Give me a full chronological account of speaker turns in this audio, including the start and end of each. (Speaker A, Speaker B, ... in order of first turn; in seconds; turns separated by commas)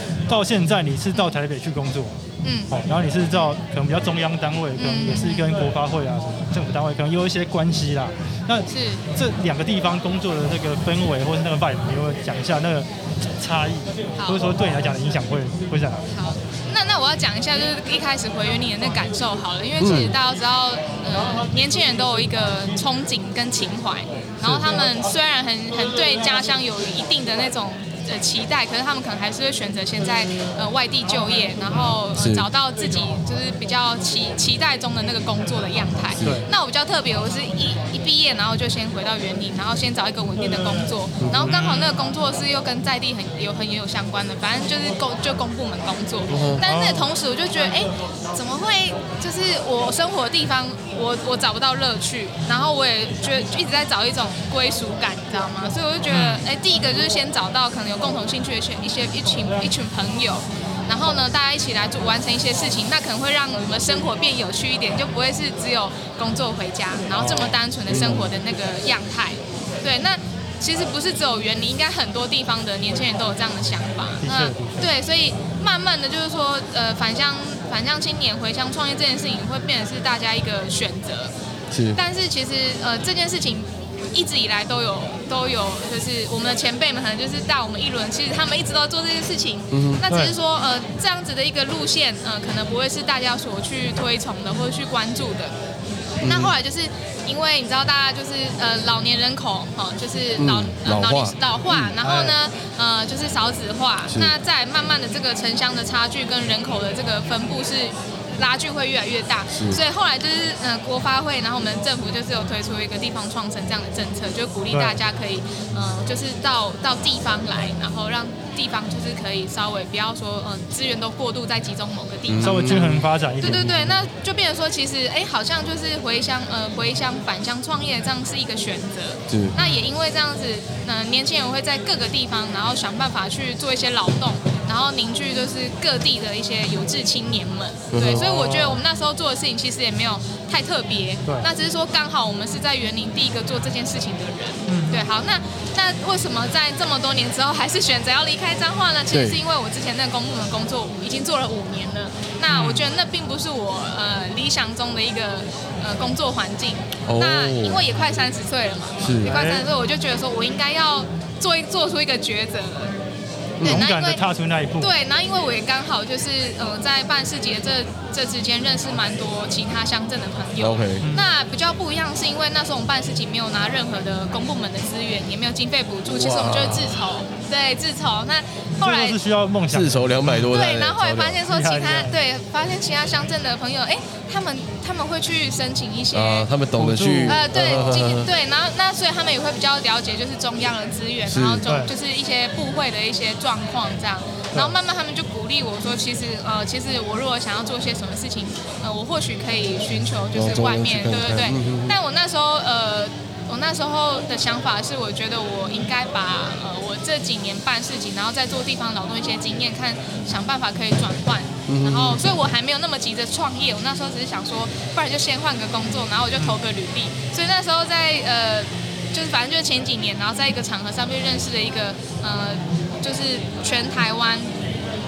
Speaker A: 0.3-2.1, Speaker B: 2.4-2.7, Speaker A: 2.7-16.1, Speaker B: 4.8-5.5, Speaker B: 8.7-9.1, Speaker B: 14.2-14.6, Speaker B: 16.1-81.3, Speaker C: 19.8-20.2, Speaker C: 32.1-32.5, Speaker C: 36.2-36.4, Speaker C: 41.2-41.5, Speaker A: 41.3-41.9, Speaker C: 46.3-46.6, Speaker A: 46.6-47.1, Speaker A: 56.1-56.4, Speaker A: 67.1-67.6, Speaker C: 67.9-68.3, Speaker A: 74.2-74.9, Speaker C: 81.7-82.0, Speaker B: 81.9-95.5, Speaker C: 89.7-90.0, Speaker A: 90.1-90.4, Speaker C: 96.2-96.5, Speaker B: 96.2-162.9, Speaker C: 100.4-101.9, Speaker A: 102.0-102.4, Speaker C: 104.1-104.3, Speaker C: 109.5-109.8, Speaker A: 114.7-115.0, Speaker C: 122.3-123.6, Speaker A: 122.4-124.0, Speaker C: 129.3-129.6, Speaker A: 129.6-129.9, Speaker C: 137.9-138.3, Speaker A: 138.1-138.8, Speaker A: 144.7-145.1, Speaker C: 149.1-149.4, Speaker A: 152.5-152.9, Speaker C: 157.0-157.8, Speaker C: 159.0-159.3, Speaker A: 159.2-159.7, Speaker C: 163.6-163.9, Speaker B: 163.6-164.2, Speaker A: 163.6-164.9, Speaker B: 164.8-179.2, Speaker C: 170.6-171.0, Speaker A: 171.0-171.3, Speaker A: 176.2-176.7, Speaker C: 176.4-176.9, Speaker A: 178.8-180.6, Speaker C: 179.7-181.4, Speaker B: 180.4-186.5, Speaker A: 181.4-182.2, Speaker C: 186.1-188.3, Speaker A: 186.8-188.0, Speaker B: 187.2-224.5, Speaker C: 191.3-191.6, Speaker A: 191.7-191.9, Speaker C: 200.3-202.0, Speaker C: 211.7-212.2